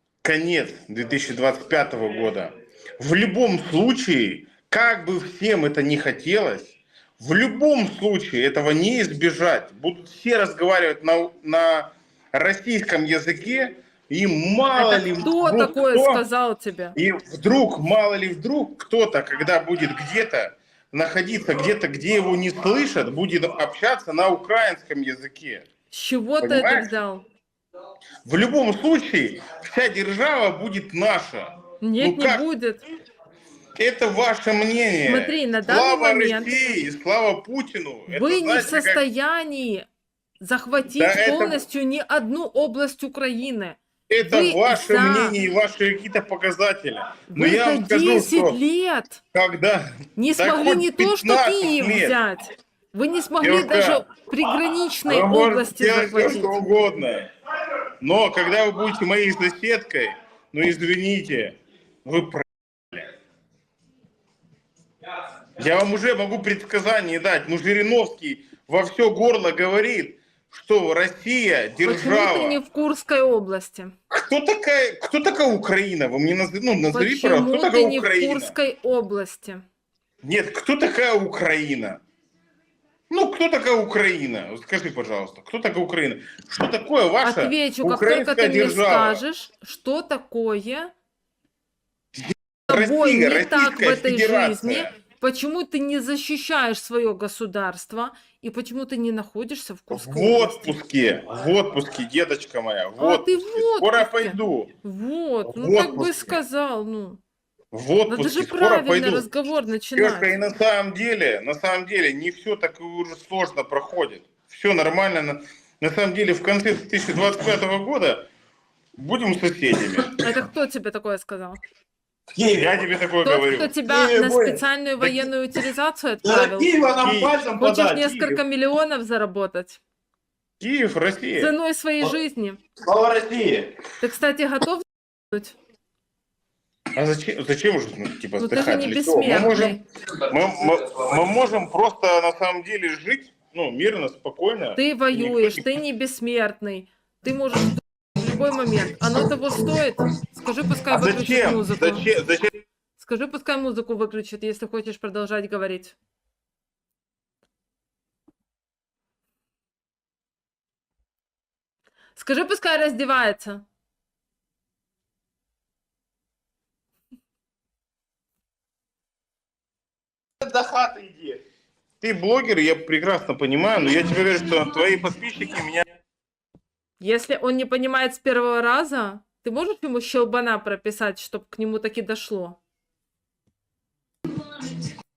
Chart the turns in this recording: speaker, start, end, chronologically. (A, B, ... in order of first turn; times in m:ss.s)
0:00.2-0:16.2 A
0:14.7-0:17.0 B
0:17.0-0:25.7 A
0:25.9-0:27.2 B
0:26.4-0:27.0 A
0:28.2-0:32.4 A
0:31.8-0:32.8 B
0:33.8-0:39.0 A
0:35.0-0:36.8 B
0:38.1-0:39.9 B
0:40.4-0:45.4 B
0:40.9-0:41.6 A
0:44.1-0:48.6 A
0:47.3-0:49.2 B
0:49.3-0:52.2 A
0:50.2-0:56.6 B
0:53.4-0:54.0 A
0:55.0-0:57.3 A
0:58.0-1:03.0 A
1:05.6-1:12.6 A
1:11.8-1:13.9 B
1:14.1-1:18.5 A
1:16.9-1:19.6 B
1:20.2-1:22.0 A
1:23.1-1:29.2 A
1:27.2-1:30.9 B
1:32.2-1:34.9 A
1:32.7-1:40.8 B
1:39.9-1:44.7 A
1:43.0-1:47.2 B
1:45.4-1:46.4 A
1:47.7-1:49.3 A
1:48.1-1:50.3 B
1:49.9-1:58.2 A
1:59.0-2:00.2 A
2:00.2-2:01.6 B
2:02.4-2:02.6 C
2:02.4-2:05.3 A
2:03.2-2:06.8 B
2:06.2-2:08.4 C
2:06.9-2:07.6 A
2:07.6-2:09.8 B
2:10.6-2:11.5 A
2:11.4-2:12.6 B
2:12.8-2:13.7 C
2:14.0-2:15.5 B
2:16.9-2:25.7 A
2:18.4-2:19.8 B
2:24.8-2:32.1 B
2:30.9-2:32.5 A
2:33.0-2:36.0 B
2:42.1-2:43.6 B
2:50.4-2:51.4 C
2:52.0-2:55.9 A
2:57.0-3:02.6 B